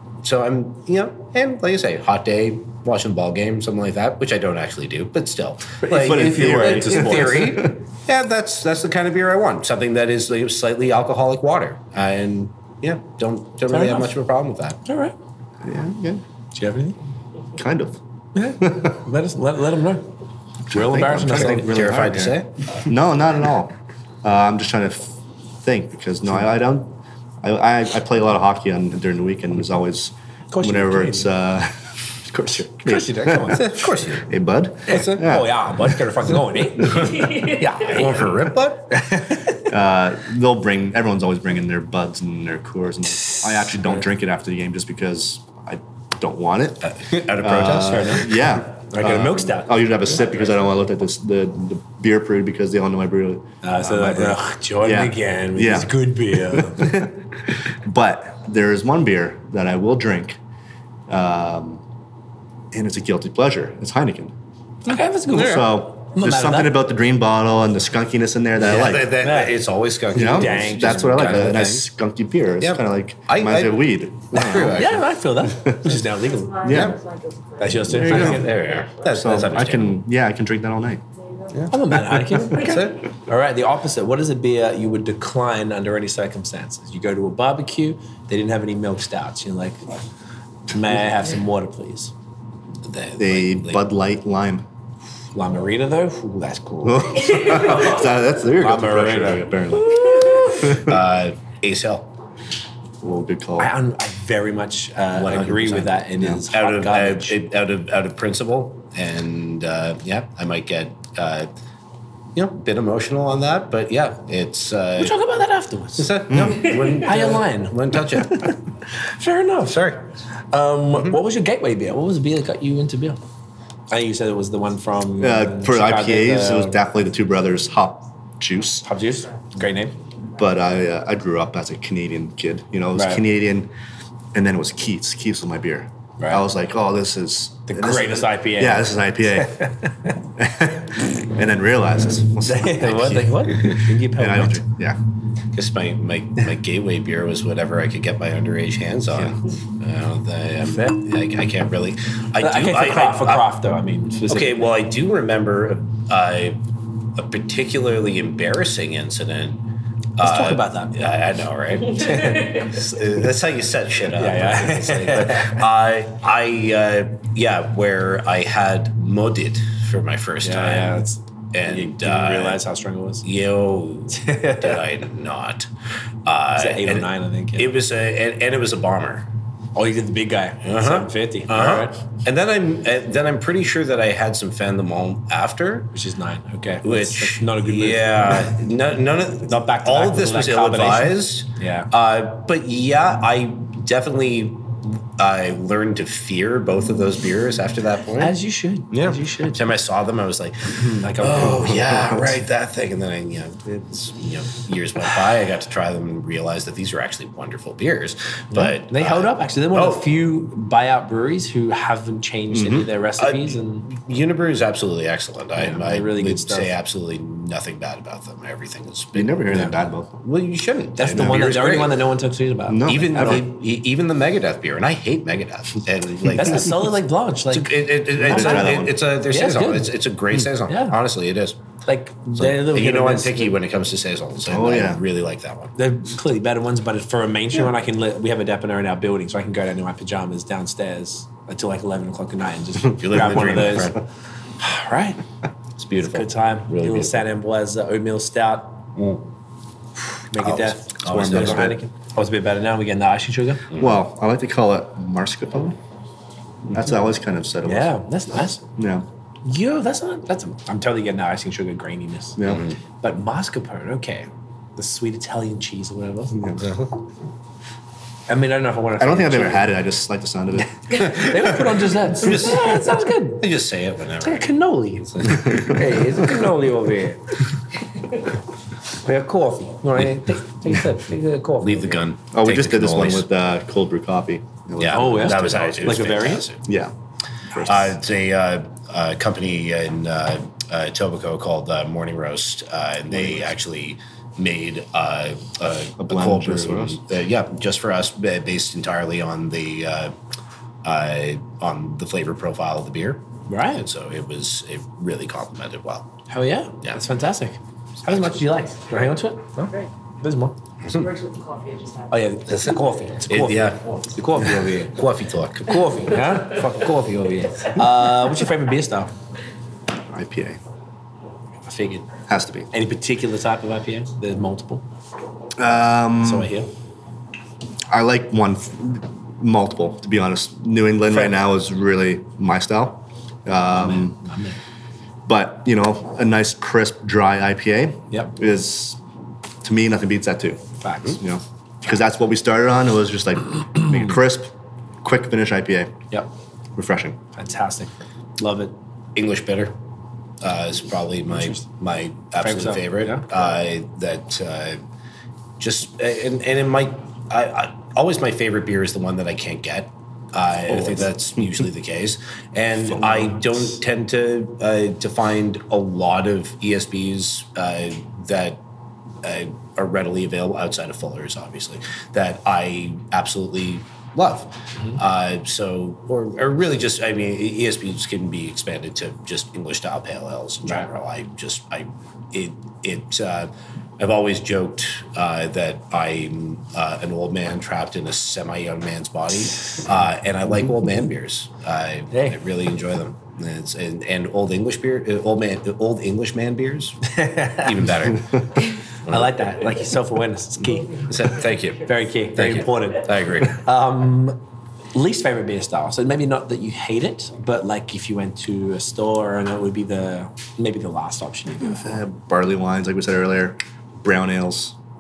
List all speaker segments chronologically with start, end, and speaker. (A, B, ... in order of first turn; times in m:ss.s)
0:00.2-0:14.8 A
0:05.8-0:07.7 B
0:05.9-0:07.8 C
0:13.7-0:14.1 B
0:14.8-0:15.2 B
0:15.6-0:16.2 C
0:16.6-0:17.0 B
0:17.6-0:18.0 C
0:18.4-0:20.1 B
0:18.6-0:19.0 C
0:20.7-0:36.1 C
0:20.7-0:22.0 B
0:21.3-0:22.7 A
0:30.5-0:31.3 B
0:32.5-0:33.9 B
0:33.5-0:34.3 A
0:34.9-0:35.2 A
0:34.9-0:39.7 B
0:36.8-0:37.1 C
0:37.0-0:37.6 D
0:37.8-0:39.0 A
0:39.6-1:00.4 C
0:43.3-0:43.9 B
0:46.8-0:48.4 A
0:47.8-0:49.8 B
0:53.6-0:57.1 B
1:01.1-1:01.8 C
1:02.7-1:04.3 C
1:04.8-1:06.8 B
1:04.9-1:05.8 A
1:05.3-1:09.2 C
1:08.6-1:11.9 A
1:09.2-1:09.6 B
1:10.1-1:16.0 C
1:10.1-1:11.6 B
1:12.6-1:15.1 A
1:14.7-1:16.8 B
1:16.2-1:18.9 D
1:16.6-1:17.0 C
1:16.7-1:17.0 A
1:17.6-1:18.6 B
1:17.9-1:18.5 C
1:17.9-1:20.0 A
1:19.1-1:21.0 C
1:21.5-1:23.0 A
1:21.7-1:29.8 B
1:30.7-1:32.1 B
1:32.8-1:33.8 A
1:33.2-1:34.6 C
1:35.4-1:38.1 B
1:36.8-1:41.0 C
1:38.6-1:40.8 B
1:40.6-1:42.1 A
1:43.0-1:43.7 C
1:43.6-1:47.4 B
1:45.1-1:51.5 A
1:52.4-1:55.2 A
1:55.0-1:56.2 B
1:56.0-1:58.5 A
1:56.3-1:56.8 C
1:56.9-1:59.9 B
1:59.7-2:00.0 A
2:00.5-2:03.2 B
2:00.9-2:01.2 A
2:03.9-2:06.8 B
2:05.2-2:08.9 C
2:08.8-2:10.0 B
2:10.4-2:13.7 C
2:13.0-2:13.2 B
2:14.3-2:19.7 C
2:16.2-2:16.4 B
2:17.7-2:20.2 B
2:20.4-2:25.0 C
2:22.4-2:24.6 B
2:25.5-2:33.5 A
2:30.7-2:31.0 B
2:32.4-2:34.7 B
2:34.3-2:36.6 A
2:37.2-2:39.6 A
2:40.2-2:52.6 A
2:40.2-2:41.0 B
2:42.0-2:42.7 B
2:44.1-2:45.6 B
2:50.4-2:53.2 B
2:53.2-2:55.7 A
2:54.1-2:54.8 B
2:56.2-2:59.3 A
2:56.6-2:57.8 B
2:59.8-3:02.0 B
3:00.6-3:05.9 A
3:05.9-3:08.5 B
3:06.8-3:18.4 A
3:09.5-3:11.9 B
3:18.2-3:19.6 B
3:18.9-3:30.1 A
3:20.8-3:21.9 B
3:21.9-3:22.3 C
3:28.5-3:33.9 B
3:32.5-3:32.9 C
3:33.2-3:39.6 A
3:35.6-3:36.7 B
3:39.1-3:40.2 C
3:40.2-3:42.0 A
3:41.0-3:43.5 B
3:42.7-3:43.4 C
3:42.8-3:46.9 A
3:46.3-3:49.9 B
3:47.5-3:51.6 A
3:48.2-3:49.0 C
3:50.7-3:51.0 B
3:51.8-3:53.6 B
3:52.4-3:55.8 A
3:54.4-3:55.0 C
3:55.8-4:04.0 B
4:02.9-4:04.0 A
4:04.6-4:05.2 B
4:05.8-4:07.2 A
4:06.0-4:08.8 B
4:09.0-4:09.2 A
4:10.2-4:13.6 B
4:10.4-4:11.8 A
4:11.0-4:11.8 C
4:13.7-4:14.0 A
4:13.8-4:15.8 C
4:16.7-4:18.0 C
4:17.6-4:18.6 B
4:18.8-4:19.1 C
4:19.4-4:22.5 B
4:22.4-4:22.6 C
4:22.4-4:22.8 A
4:23.0-4:26.4 B
4:26.6-4:26.9 A
4:28.3-4:29.7 B
4:29.0-4:30.7 C
4:30.9-4:33.5 B
4:31.0-4:34.5 A
4:34.2-4:37.4 B
4:35.0-4:36.3 A
4:35.4-4:35.8 C
4:38.9-4:42.0 B
4:41.6-4:43.3 A
4:42.3-4:45.8 C
4:44.8-4:46.6 A
4:44.9-4:46.5 B
4:46.7-4:46.9 C
4:47.5-4:47.8 C
4:47.6-5:00.2 A
4:53.1-4:53.5 C
4:56.0-4:57.0 C
5:00.8-5:06.1 A
5:03.5-5:03.8 B
5:06.3-5:09.7 B
5:08.0-5:08.5 A
5:10.2-5:10.6 B
5:10.8-5:11.1 A
5:10.9-5:12.1 D
5:12.1-5:15.0 B
5:13.3-5:16.1 A
5:15.7-5:19.1 B
5:20.1-5:20.6 C
5:21.7-5:22.1 B
5:22.3-5:22.7 C
5:22.7-5:24.8 B
5:25.6-5:26.5 C
5:26.2-5:26.7 B
5:27.9-5:34.2 C
5:33.8-5:34.6 B
5:35.3-5:39.0 C
5:39.6-5:46.0 C
5:40.8-5:41.2 B
5:46.8-5:47.2 C
5:47.4-5:48.7 B
5:49.2-5:49.8 A
5:50.4-5:54.8 A
5:51.3-5:51.6 B
5:52.4-5:53.2 B
5:55.6-6:08.6 A
6:00.7-6:01.0 B
6:03.0-6:03.5 C
6:09.2-6:38.4 A
6:32.1-6:32.4 B
6:37.1-6:37.8 B
6:39.1-6:39.3 A
6:39.1-6:44.4 B
6:41.0-6:43.6 A
6:44.9-6:52.0 B
6:51.6-6:54.8 C